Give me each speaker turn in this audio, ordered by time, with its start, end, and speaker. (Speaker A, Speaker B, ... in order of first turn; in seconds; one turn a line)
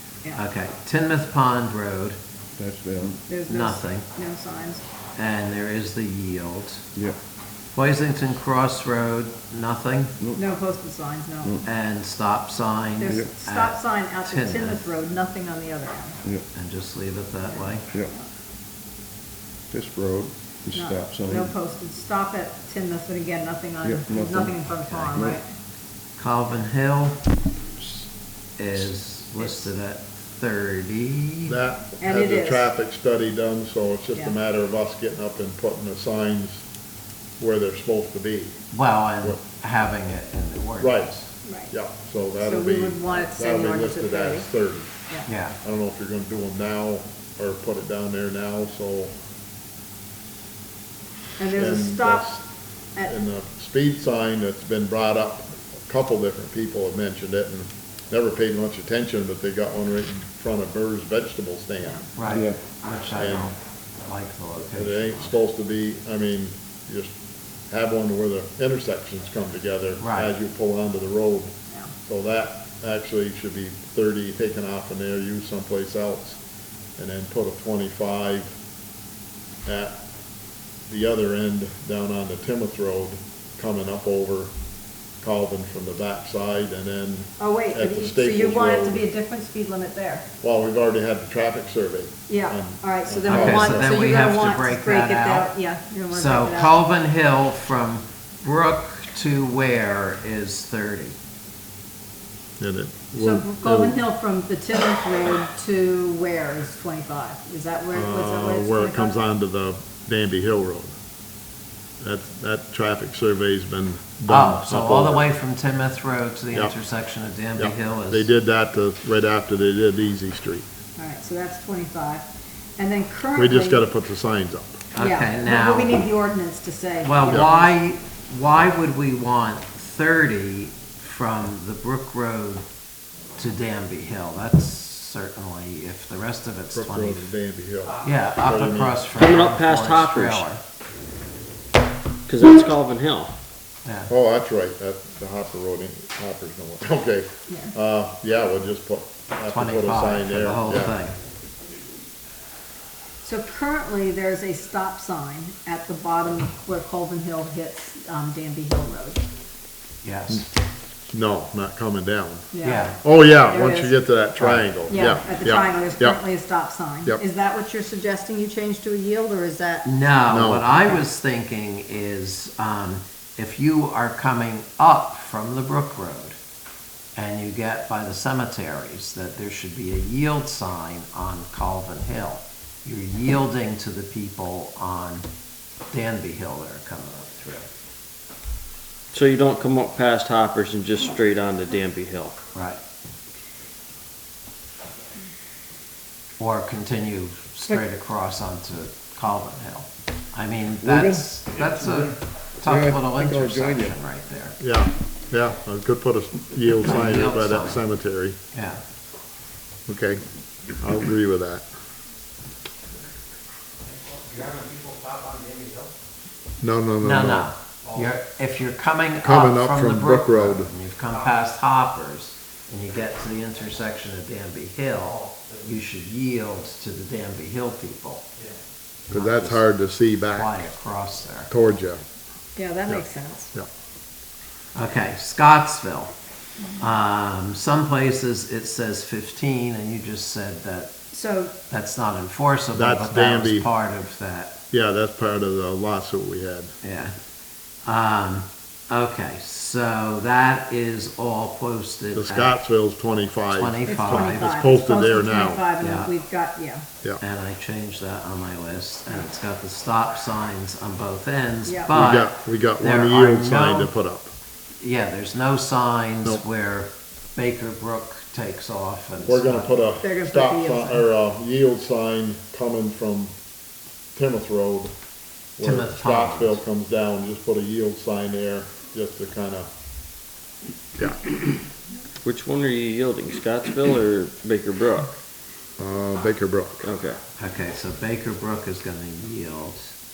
Speaker A: 0.3-2.2
Speaker B: 2.6-3.2
Speaker C: 3.3-4.8
Speaker A: 3.5-4.1
Speaker A: 5.2-6.8
Speaker A: 7.8-10.2
Speaker C: 10.3-11.6
Speaker A: 11.6-14.9
Speaker C: 13.0-16.2
Speaker A: 16.5-17.9
Speaker C: 17.5-18.3
Speaker B: 19.7-21.5
Speaker C: 20.7-25.4
Speaker B: 23.8-25.4
Speaker A: 24.9-25.2
Speaker A: 26.2-27.2
Speaker A: 28.6-31.6
Speaker D: 31.5-36.6
Speaker C: 32.0-32.7
Speaker D: 37.4-38.6
Speaker A: 38.7-41.3
Speaker D: 40.8-41.1
Speaker C: 41.5-41.7
Speaker D: 41.7-44.9
Speaker C: 42.4-44.5
Speaker A: 45.3-45.6
Speaker D: 45.6-49.1
Speaker C: 51.4-52.3
Speaker D: 51.5-52.5
Speaker D: 53.0-62.1
Speaker A: 62.2-65.4
Speaker B: 62.2-62.6
Speaker D: 63.1-63.5
Speaker D: 64.7-67.1
Speaker D: 67.7-71.5
Speaker A: 70.0-70.3
Speaker D: 72.1-76.4
Speaker D: 77.0-78.6
Speaker D: 79.7-80.0
Speaker D: 80.9-84.5
Speaker D: 85.2-89.0
Speaker C: 87.4-90.3
Speaker D: 90.4-94.0
Speaker C: 92.3-96.8
Speaker A: 93.3-95.5
Speaker A: 96.1-101.2
Speaker D: 102.6-104.0
Speaker C: 103.2-109.2
Speaker D: 107.9-110.9
Speaker D: 112.0-115.3
Speaker A: 114.3-118.3
Speaker D: 117.6-120.7
Speaker C: 121.0-122.3
Speaker C: 122.8-123.8
Speaker D: 123.3-124.8
Speaker A: 124.9-126.0
Speaker C: 125.0-127.7
Speaker A: 127.0-132.7
Speaker A: 133.4-137.3
Speaker D: 136.7-139.0
Speaker A: 138.0-140.6
Speaker E: 139.2-140.5
Speaker E: 142.3-143.3
Speaker A: 143.8-144.1
Speaker D: 144.1-151.0
Speaker A: 149.5-151.2
Speaker C: 153.2-159.2
Speaker A: 160.0-160.5
Speaker D: 161.1-162.5
Speaker C: 162.5-164.0
Speaker A: 162.6-163.0
Speaker D: 163.0-166.2
Speaker A: 164.4-164.7
Speaker C: 164.9-169.9
Speaker A: 169.8-176.4
Speaker D: 170.3-170.9
Speaker A: 177.2-185.3
Speaker A: 185.9-187.7
Speaker E: 189.1-192.4
Speaker A: 192.5-192.8
Speaker A: 196.4-204.6
Speaker B: 200.8-202.1
Speaker B: 202.6-204.0
Speaker D: 204.6-208.4
Speaker A: 206.8-207.8
Speaker A: 208.5-208.8
Speaker D: 209.9-210.2
Speaker D: 210.8-211.7
Speaker E: 214.0-215.9
Speaker D: 216.6-217.5
Speaker A: 217.0-228.2
Speaker D: 219.2-220.7
Speaker E: 225.0-225.6
Speaker A: 229.1-229.7
Speaker D: 229.1-230.6
Speaker A: 230.3-231.5
Speaker D: 231.5-232.0
Speaker C: 232.6-233.5
Speaker D: 232.9-233.7
Speaker A: 234.8-236.1
Speaker A: 236.8-240.9
Speaker C: 241.1-241.5
Speaker A: 241.7-244.6
Speaker D: 242.7-243.7
Speaker D: 244.7-246.7
Speaker A: 246.8-247.2
Speaker A: 247.8-252.5
Speaker D: 252.1-255.7
Speaker A: 253.5-254.6
Speaker C: 253.9-256.9
Speaker A: 255.8-256.1
Speaker A: 257.2-263.9
Speaker C: 261.6-261.9
Speaker D: 261.9-264.3
Speaker A: 264.8-269.7
Speaker D: 269.2-273.3
Speaker C: 270.0-271.1
Speaker D: 274.1-274.9
Speaker D: 275.6-279.7
Speaker A: 275.6-276.6
Speaker D: 281.0-281.3
Speaker E: 282.2-285.1
Speaker D: 285.8-286.8
Speaker E: 286.8-287.2
Speaker A: 287.4-289.9